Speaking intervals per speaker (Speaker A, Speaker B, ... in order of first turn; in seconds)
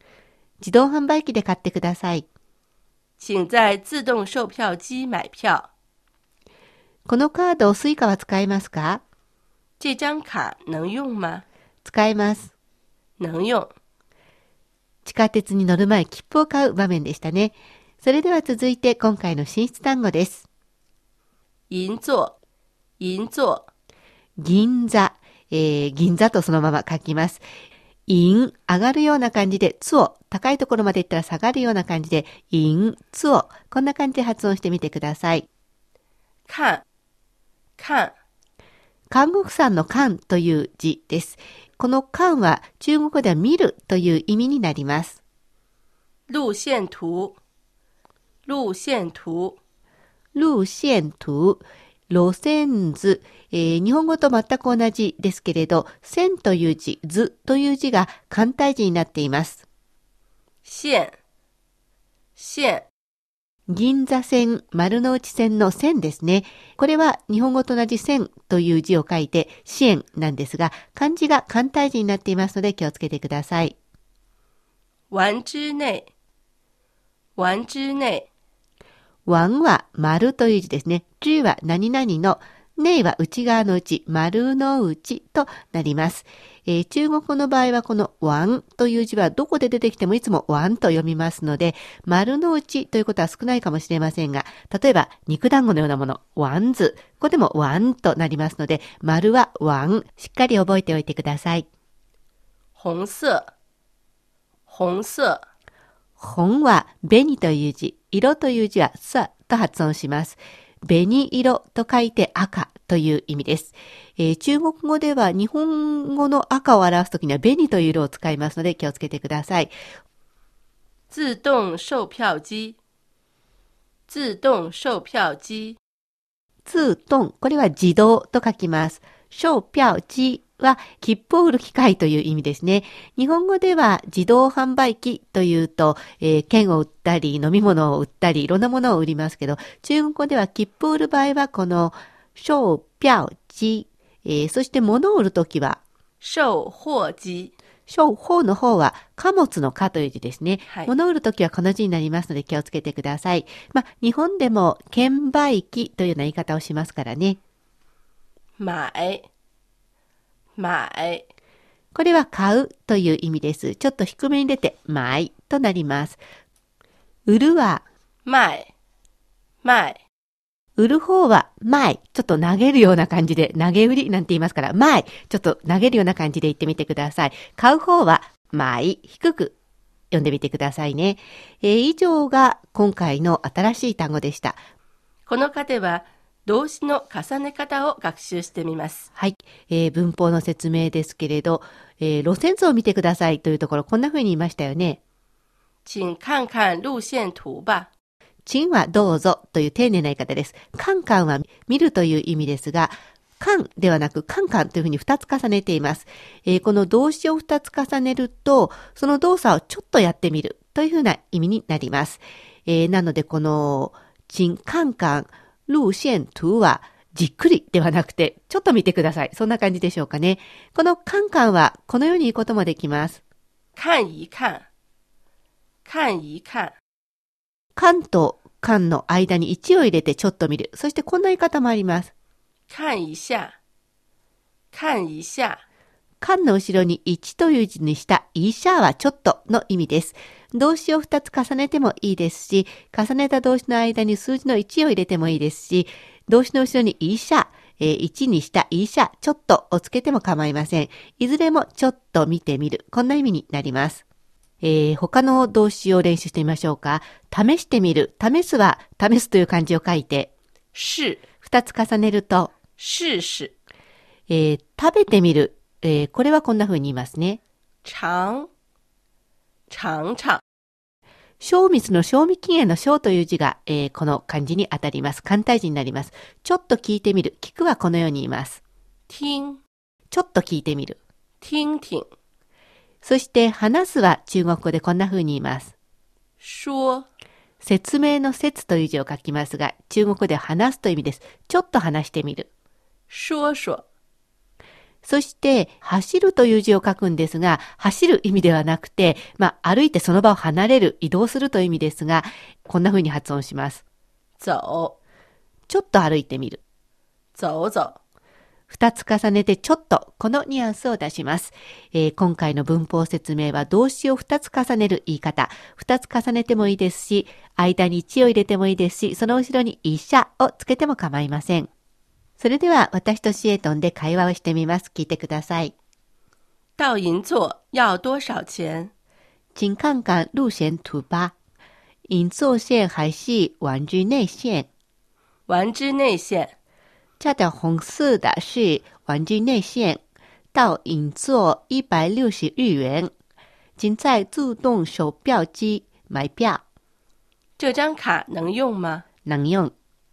Speaker A: 0.6-2.3, 7.1-9.0, 11.8-12.5, 15.1-20.5, 24.4-27.4, 28.1-35.5, 39.1-45.2, 50.4-59.6, 63.7-73.8, 79.3-101.7, 106.2-119.7, 126.7-145.8, 147.9-157.4, 161.9-166.2, 167.3-167.8, 170.8-179.5, 180.1-184.6, 189.2-195.0, 198.5-223.2, 227.8-232.1, 236.2-254.0, 254.6-260.3, 261.4-262.5, 264.3-267.4, 271.4-278.6, 280.1-281.0, 283.0-285.7, 287.6-292.5, 295.1-303.8, 305.7-306.6, 308.7-321.7, 322.4-325.7, 329.6-331.3, 332.1-334.7, 337.2-340.0, 340.5-343.1, 343.8-346.6, 349.3-349.7
Speaker B: 3.2-5.7, 9.8-11.4, 13.2-13.7, 21.7-22.4, 23.0-23.7, 36.5-36.8, 37.8-38.1, 46.3-47.4, 48.5-49.6, 60.6-61.1, 62.4-62.9, 75.1-76.1, 77.4-78.3, 102.8-103.5, 104.7-105.5, 121.1-122.8, 124.1-125.8, 146.2-147.5, 158.6-159.3, 160.6-161.3, 168.3-168.7, 169.6-170.0, 185.3-189.1, 195.9-197.9, 223.8-224.7, 225.9-226.8, 232.7-233.6, 234.7-235.6, 260.8-261.2, 262.8-263.5, 267.9-268.5, 269.7-270.4, 279.1-279.6, 281.4-282.1, 286.4-287.1, 293.1-293.9, 304.4-305.0, 307.4-308.0, 326.8-328.9, 335.5-336.5, 347.6-349.1